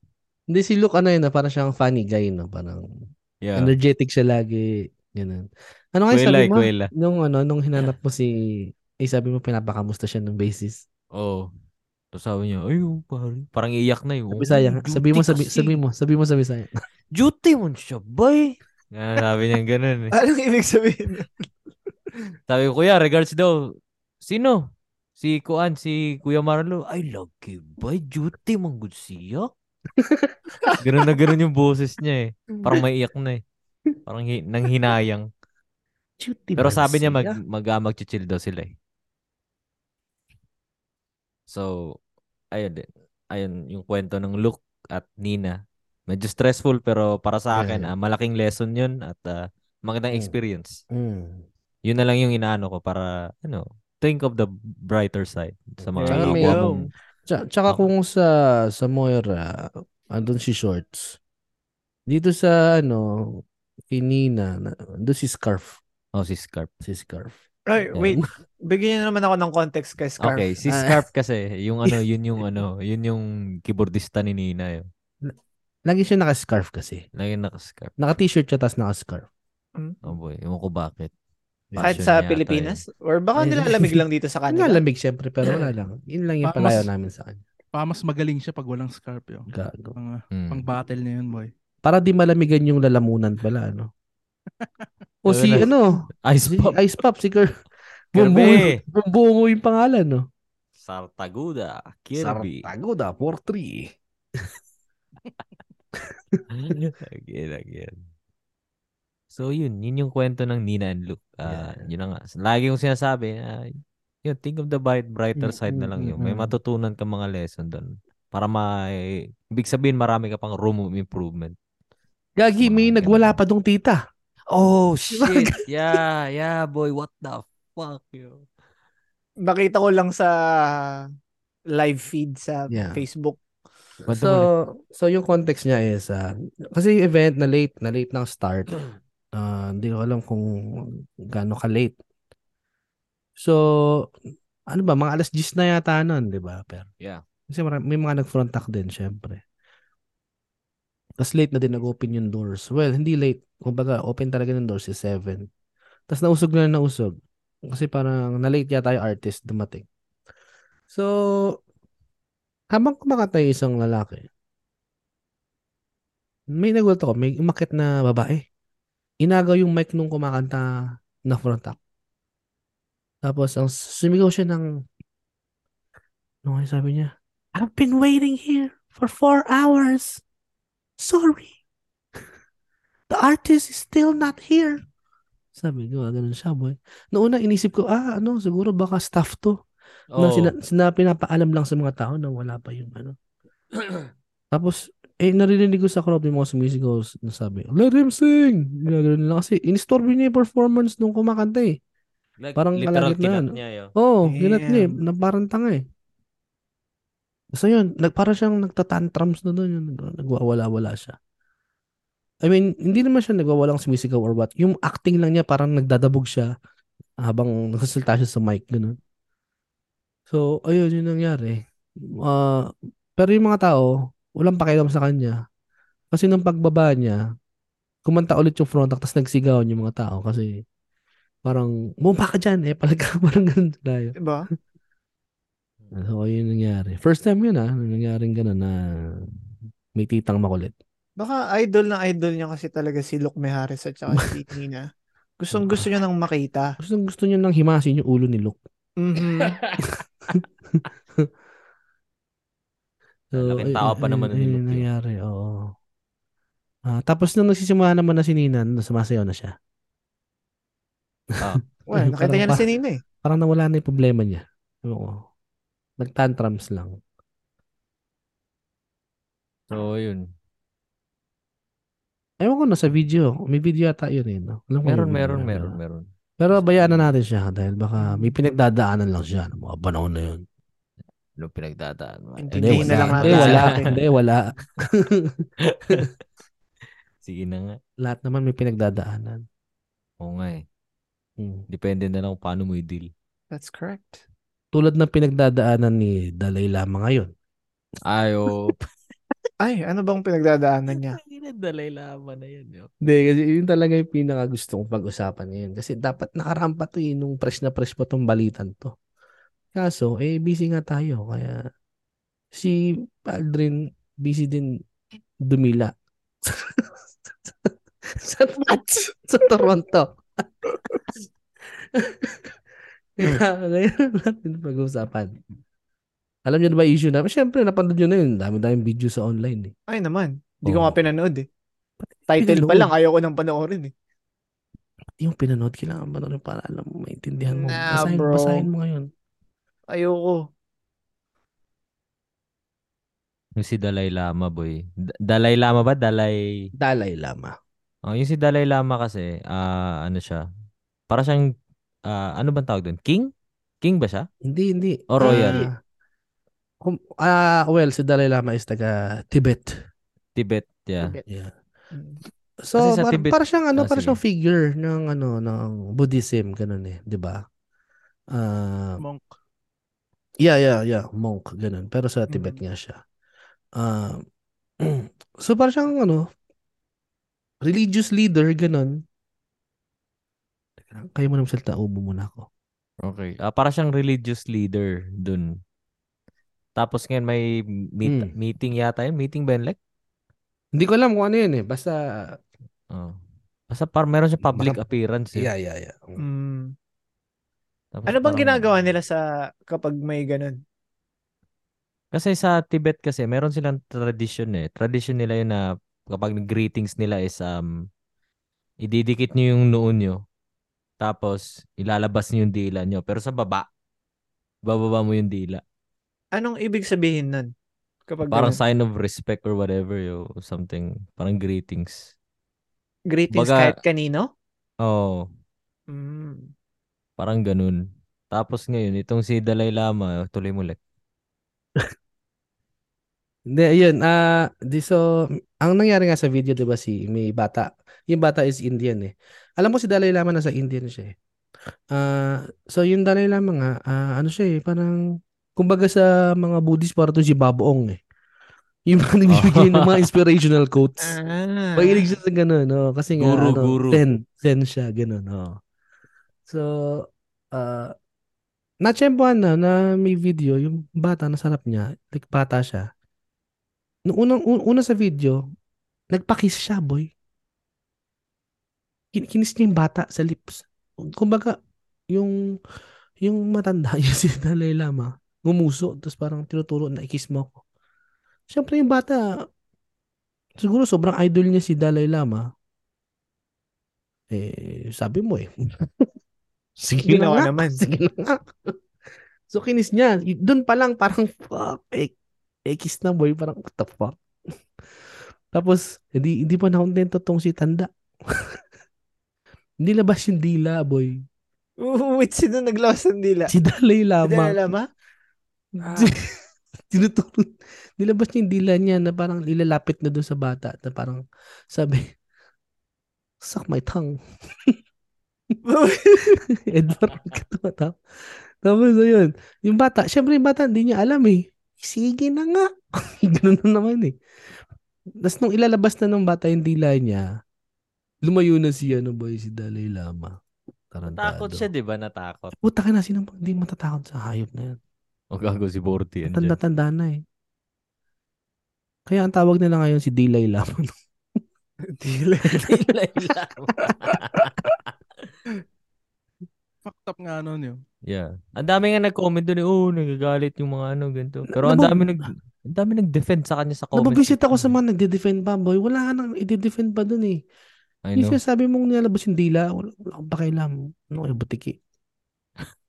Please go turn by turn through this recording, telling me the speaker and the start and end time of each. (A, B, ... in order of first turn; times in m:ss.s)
0:00.5-0:02.8 A
0:03.4-0:03.7 B
0:03.6-0:10.8 A
0:06.1-0:06.9 B
0:11.1-0:11.5 B
0:12.1-0:15.8 B
0:14.3-0:16.7 A
0:17.1-0:20.2 B
0:20.1-0:21.3 C
0:22.5-0:24.6 B
0:25.2-0:29.5 B
0:30.0-0:30.5 A
0:30.8-0:33.4 B
0:34.0-0:35.3 B
0:36.2-0:37.4 A
0:36.6-0:38.7 B
0:41.5-0:42.0 B
0:42.5-0:50.8 B
0:47.5-0:47.9 A
0:50.9-0:51.4 A
0:51.8-0:56.9 B
0:55.8-0:56.6 A
0:56.0-0:56.9 C
0:57.3-1:01.2 A
1:02.1-1:05.8 A
1:06.1-1:06.7 B
1:06.8-1:07.4 A
1:07.7-1:10.5 C
1:10.2-1:14.8 B
1:10.7-1:11.0 A
1:15.9-1:17.0 A
1:17.2-1:17.9 B
1:18.0-1:19.3 A
1:20.0-1:21.1 B
1:21.7-1:22.0 A
1:21.7-1:22.8 B
1:21.8-1:24.8 C
1:23.4-1:27.4 A
1:26.4-1:26.9 D
1:27.7-1:31.5 D
1:29.5-1:29.9 A
1:30.3-1:30.6 B
1:31.8-1:33.9 A
1:34.6-1:34.9 D
1:35.2-1:37.5 A
1:35.3-1:35.7 B
1:36.2-1:36.8 B
1:38.1-1:38.8 B
1:38.1-1:40.2 A
1:40.8-1:42.7 B
1:42.2-1:44.4 A
1:46.0-1:46.4 A
1:46.5-1:48.0 B
1:49.3-2:01.5 B
1:51.4-1:51.9 A
1:55.4-1:56.5 A
2:02.4-2:04.0 A
2:02.6-2:03.4 B
2:04.5-2:08.4 B
2:05.1-2:05.6 A
2:09.4-2:11.0 C
2:11.7-2:13.4 C
2:12.7-2:13.0 A
2:14.1-2:14.5 B
2:14.1-2:18.8 A
2:19.3-2:21.9 A
2:23.4-2:24.1 A
2:24.7-2:26.9 A
2:27.5-2:29.4 A
2:31.2-2:35.5 A
2:36.1-2:39.8 A
2:40.9-2:41.6 A
2:42.7-2:44.3 A
2:46.5-2:48.4 A
2:49.2-2:50.7 A
2:51.3-2:51.8 A
2:53.2-2:54.7 A
2:56.4-3:00.2 A
3:01.0-3:01.6 A
3:03.1-3:04.8 A
3:05.6-3:09.6 A
3:10.1-3:10.5 B
3:10.2-3:13.1 A
3:14.5-3:21.8 A
3:22.4-3:23.9 B
3:22.6-3:25.8 A
3:24.2-3:24.9 C
3:27.5-3:31.2 A
3:32.4-3:36.5 A
3:37.2-3:39.0 A
3:40.3-3:41.6 A
3:42.2-3:45.4 A
3:46.1-3:47.2 A
3:48.0-3:50.6 A
3:51.4-3:54.1 A
3:54.2-3:54.5 C
3:55.9-3:59.3 A
3:59.9-4:00.7 A
4:01.2-4:04.9 C
4:05.4-4:06.8 C
4:05.5-4:05.9 A
4:06.8-4:08.6 A
4:09.0-4:09.6 C
4:09.8-4:11.3 A
4:13.3-4:15.7 A
4:13.3-4:14.9 B
4:16.8-4:19.5 A
4:21.8-4:22.6 A
4:21.9-4:23.0 C
4:23.2-4:25.2 A
4:26.0-4:27.0 A
4:29.7-4:30.3 B
4:32.4-4:35.7 A
4:34.8-4:37.1 B
4:36.4-4:40.4 A
4:38.0-4:38.3 C
4:41.4-4:44.0 B
4:42.4-4:43.9 C
4:42.6-4:44.5 A
4:45.0-4:46.1 A
4:45.6-4:46.1 B
4:47.2-4:47.8 B
4:48.0-4:49.4 A
4:50.2-4:50.6 B
4:51.4-4:51.6 A
4:51.7-4:53.1 B
4:53.5-4:54.2 C
4:54.7-4:57.3 A
4:58.0-4:58.8 B
4:59.6-5:01.2 C
5:01.0-5:02.9 B
5:03.0-5:08.9 A
5:09.7-5:11.6 A
5:12.5-5:14.8 A
5:15.4-5:20.5 A
5:21.7-5:22.5 A
5:23.2-5:25.3 A
5:26.4-5:29.7 A
5:29.9-5:31.4 C
5:32.0-5:32.9 A
5:32.3-5:33.9 C
5:35.2-5:39.1 A
5:37.5-5:38.6 C
5:39.9-5:40.4 C
5:43.6-5:46.7 B
5:46.8-5:47.5 A
5:48.0-5:50.4 B
5:51.1-5:51.5 B
5:52.1-5:53.3 B
5:53.8-5:54.3 B
5:54.4-5:55.7 A
5:55.1-5:55.7 B
5:55.2-5:55.7 C
5:56.8-5:59.7 A
6:00.4-6:01.1 B
6:01.3-6:01.5 A
6:01.9-6:02.2 C
6:02.6-6:07.4 A
6:02.8-6:04.2 B
6:08.3-6:09.0 A
6:09.0-6:09.2 D
6:10.4-6:13.0 A
6:12.3-6:12.6 C
6:13.8-6:14.2 A
6:14.8-6:16.2 A
6:17.6-6:19.0 A
6:20.8-6:22.4 A
6:23.0-6:25.5 B
6:26.8-6:27.4 B
6:28.0-6:29.8 B
6:28.0-6:28.3 A
6:30.8-6:32.4 A
6:32.9-6:33.2 B
6:33.7-6:35.5 B
6:34.4-6:34.8 A
6:35.3-6:36.2 A
6:36.2-6:36.7 C
6:37.9-6:38.9 B
6:38.1-6:40.6 C
6:42.1-6:47.9 B
6:48.8-6:50.2 B
6:51.0-6:53.7 B
6:54.6-6:55.6 B
6:56.3-6:57.5 C
6:58.1-6:58.6 C
6:58.3-7:02.1 B
7:03.1-7:04.3 C
7:03.3-7:03.8 B
7:04.8-7:05.2 B
7:05.9-7:06.5 C
7:07.2-7:07.8 B
7:08.3-7:10.8 B
7:13.5-7:15.0 A
7:15.6-7:21.1 A
7:21.9-7:25.0 A
7:25.6-7:28.0 A
7:28.9-7:31.2 A
7:29.3-7:30.1 B
7:31.0-7:32.2 C
7:31.8-7:35.6 A
7:33.2-7:34.0 B
7:36.5-7:37.9 A
7:38.8-7:42.8 A
7:44.1-7:45.4 A
7:46.1-7:47.1 A
7:49.1-7:51.6 A
7:53.2-7:57.6 A
7:58.5-7:59.2 A
8:00.6-8:02.5 A
8:04.3-8:06.1 A
8:06.8-8:08.7 A
8:07.0-8:07.8 C
8:09.5-8:12.1 A
8:12.6-8:14.2 A
8:15.5-8:18.6 A
8:19.8-8:21.2 A
8:21.8-8:23.5 C
8:23.5-8:24.7 A
8:24.2-8:24.8 C
8:25.8-8:26.3 A
8:25.8-8:26.1 C
8:26.9-8:32.1 A
8:33.4-8:34.8 A
8:35.6-8:36.4 C
8:36.5-8:38.0 A
8:38.6-8:44.1 A
8:45.2-8:47.2 A
8:48.2-8:50.4 A
8:50.9-8:51.7 A
8:51.0-8:52.5 B
8:52.6-8:54.8 A
8:55.3-8:56.6 B
8:56.3-8:57.2 A
8:59.1-9:00.9 A
9:01.9-9:02.6 C
9:02.5-9:02.9 A
9:02.6-9:04.5 B
9:06.8-9:07.8 D
9:08.1-9:14.7 B
9:11.5-9:12.1 A
9:13.9-9:17.4 A
9:18.0-9:18.4 B
9:18.2-9:21.8 A